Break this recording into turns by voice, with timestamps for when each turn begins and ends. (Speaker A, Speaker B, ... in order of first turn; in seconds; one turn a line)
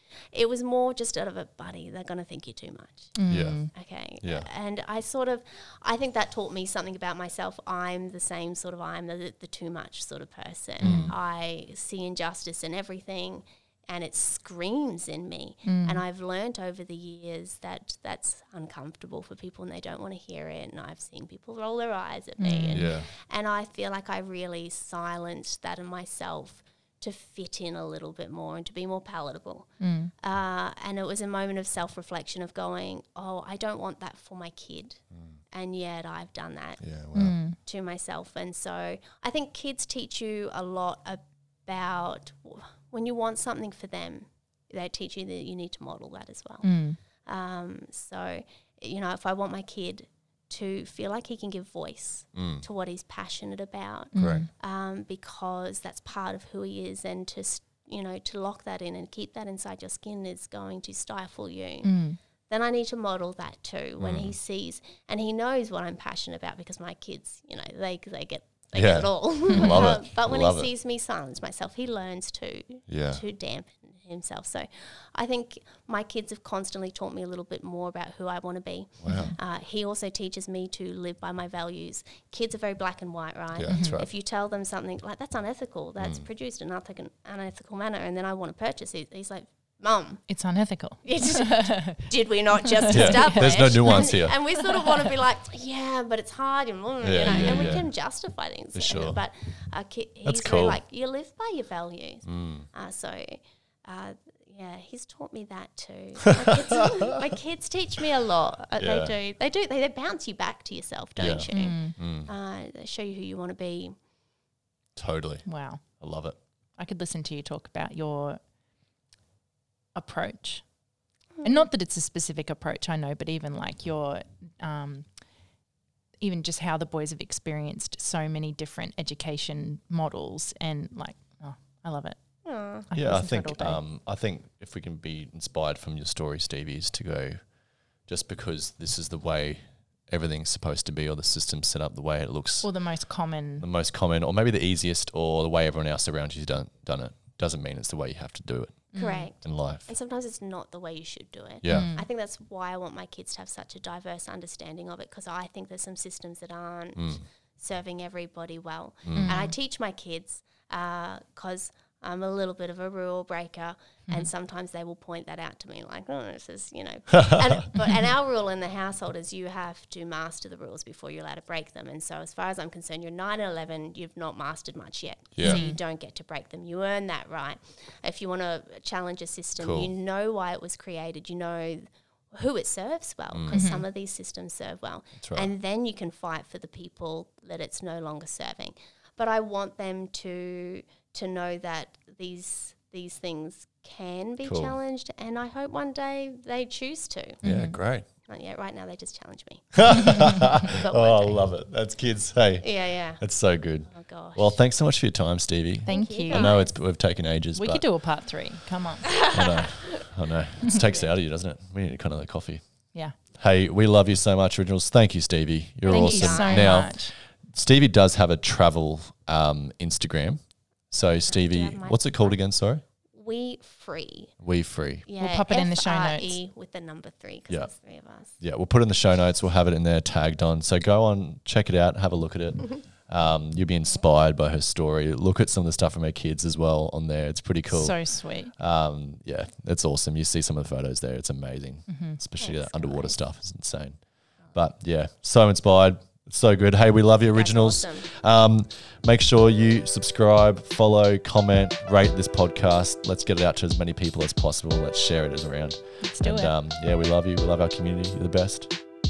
Speaker A: 0.3-3.1
Speaker B: 3.1-3.7
Speaker C: 3.3-3.7
Speaker A: 3.7-29.7
Speaker C: 4.2-4.5
Speaker C: 10.8-11.2
Speaker B: 15.7-16.0
Speaker B: 22.4-22.9
Speaker C: 22.7-23.1
Speaker B: 29.8-30.1
Speaker A: 30.2-36.8
Speaker C: 35.1-35.4
Speaker C: 36.8-37.4
Speaker B: 37.1-37.6
Speaker A: 37.6-46.7
Speaker B: 46.6-47.0
Speaker A: 47.2-61.9
Speaker C: 52.3-52.6
Speaker B: 54.1-54.5
Speaker C: 54.1-54.5
Speaker B: 61.8-62.2
Speaker A: 62.5-90.2
Speaker C: 64.0-64.3
Speaker C: 68.7-70.7
Speaker B: 69.5-69.8
Speaker C: 72.9-73.2
Speaker C: 79.0-79.3
Speaker B: 79.0-79.3
Speaker C: 83.5-84.1
Speaker B: 83.7-84.0
Speaker C: 86.0-86.2
Speaker B: 90.3-92.1
Speaker A: 91.0-113.9
Speaker B: 92.7-95.1
Speaker C: 92.9-94.3
Speaker C: 97.0-97.9
Speaker C: 98.7-99.2
Speaker C: 100.2-100.8
Speaker C: 102.2-102.7
Speaker C: 106.4-106.9
Speaker C: 108.8-109.1
Speaker C: 111.2-112.3
Speaker B: 111.5-112.0
Speaker C: 115.0-115.4
Speaker B: 115.4-115.8
Speaker C: 116.0-116.4
Speaker B: 116.8-118.4
Speaker B: 119.9-120.6
Speaker A: 121.3-121.6
Speaker B: 121.4-125.0
Speaker B: 126.2-132.2
Speaker A: 132.4-132.9
Speaker B: 132.9-133.8
Speaker C: 132.9-137.4
Speaker C: 138.1-142.7
Speaker B: 142.6-143.7
Speaker C: 143.6-149.9
Speaker B: 148.9-149.3
Speaker A: 148.9-197.4
Speaker C: 151.6-151.9
Speaker B: 151.7-152.1
Speaker C: 156.9-157.2
Speaker C: 159.0-159.3
Speaker B: 159.2-159.5
Speaker C: 175.3-175.6
Speaker B: 175.4-175.8
Speaker C: 179.6-179.9
Speaker C: 183.3-183.6
Speaker B: 183.5-183.8
Speaker C: 185.2-185.5
Speaker C: 194.4-194.8
Speaker B: 197.4-197.8
Speaker C: 197.4-198.1
Speaker A: 198.2-200.2
Speaker C: 199.7-207.8
Speaker A: 200.7-201.4
Speaker A: 202.6-203.2
Speaker A: 203.9-204.6
Speaker B: 205.8-206.6
Speaker A: 205.9-206.7
Speaker B: 207.6-209.2
Speaker A: 209.1-210.0
Speaker C: 209.3-212.6
Speaker A: 210.7-211.1
Speaker C: 213.3-222.8
Speaker A: 215.8-216.9
Speaker B: 215.9-217.1
Speaker A: 221.3-222.4
Speaker A: 223.1-224.3
Speaker C: 224.4-225.1
Speaker A: 225.1-228.3
Speaker B: 225.2-226.4
Speaker C: 228.4-244.0
Speaker B: 237.7-238.5
Speaker B: 241.9-242.2
Speaker A: 242.4-243.2
Speaker C: 244.5-258.7
Speaker A: 247.3-248.1
Speaker B: 256.0-256.5